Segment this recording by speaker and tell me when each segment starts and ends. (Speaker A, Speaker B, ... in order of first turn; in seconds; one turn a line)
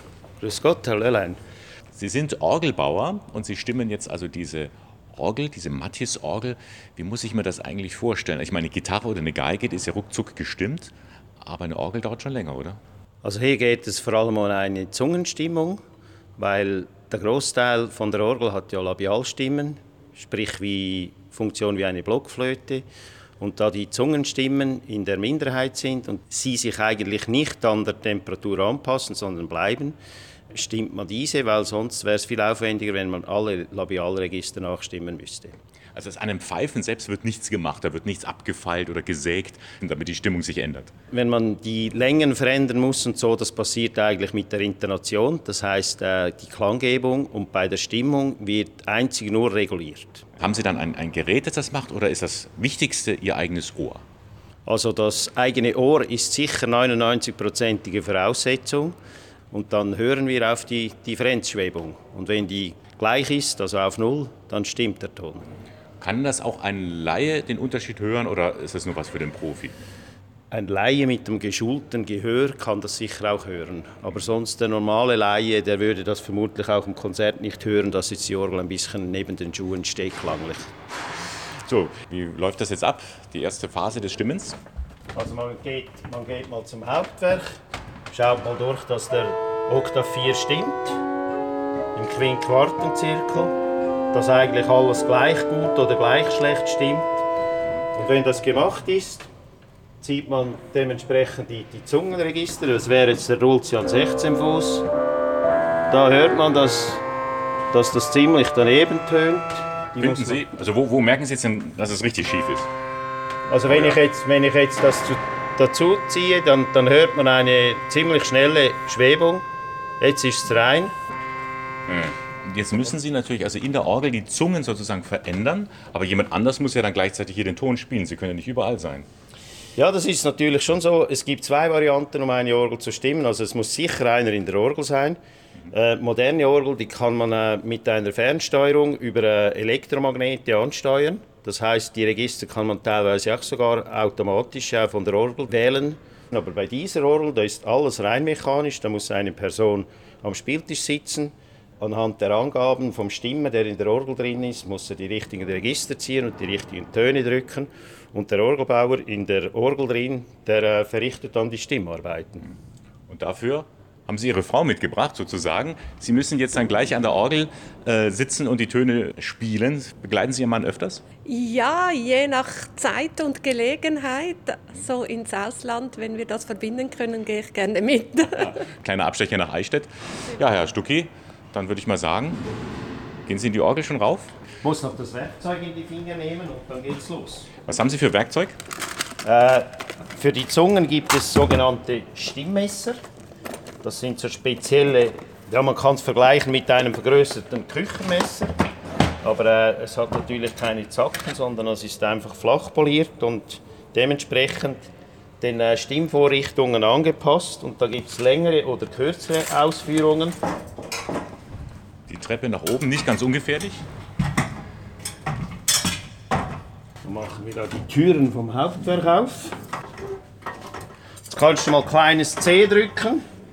Speaker A: 0.4-1.4
Speaker B: 1.9-12.8
Speaker A: 13.2-15.8
Speaker A: 16.4-22.9
Speaker A: 23.4-29.9
Speaker A: 30.5-35.6
Speaker B: 35.9-40.9
Speaker A: 41.1-50.2
Speaker B: 50.4-54.0
Speaker A: 54.6-58.9
Speaker A: 59.5-65.5
Speaker B: 66.0-69.7
Speaker A: 70.5-80.7
Speaker B: 81.7-84.6
Speaker A: 85.1-87.5
Speaker A: 88.1-91.0
Speaker A: 91.9-93.5
Speaker A: 94.1-97.2
Speaker A: 97.9-99.3
Speaker A: 100.0-104.8
Speaker A: 105.9-107.0
Speaker A: 107.7-110.4
Speaker B: 110.0-112.7
Speaker A: 113.5-119.4
Speaker A: 120.0-120.9
Speaker B: 121.9-129.1
Speaker A: 129.8-135.2
Speaker A: 135.7-162.5
Speaker B: 163.1-171.0
Speaker C: 171.2-178.5
Speaker B: 178.3-182.4
Speaker B: 183.2-184.3
Speaker A: 184.6-187.5
Speaker B: 187.6-188.6
Speaker A: 189.2-193.0
Speaker A: 193.8-198.5
Speaker A: 199.2-204.9
Speaker A: 205.4-210.4
Speaker B: 212.1-213.8
Speaker A: 217.0-219.6
Speaker A: 221.3-223.2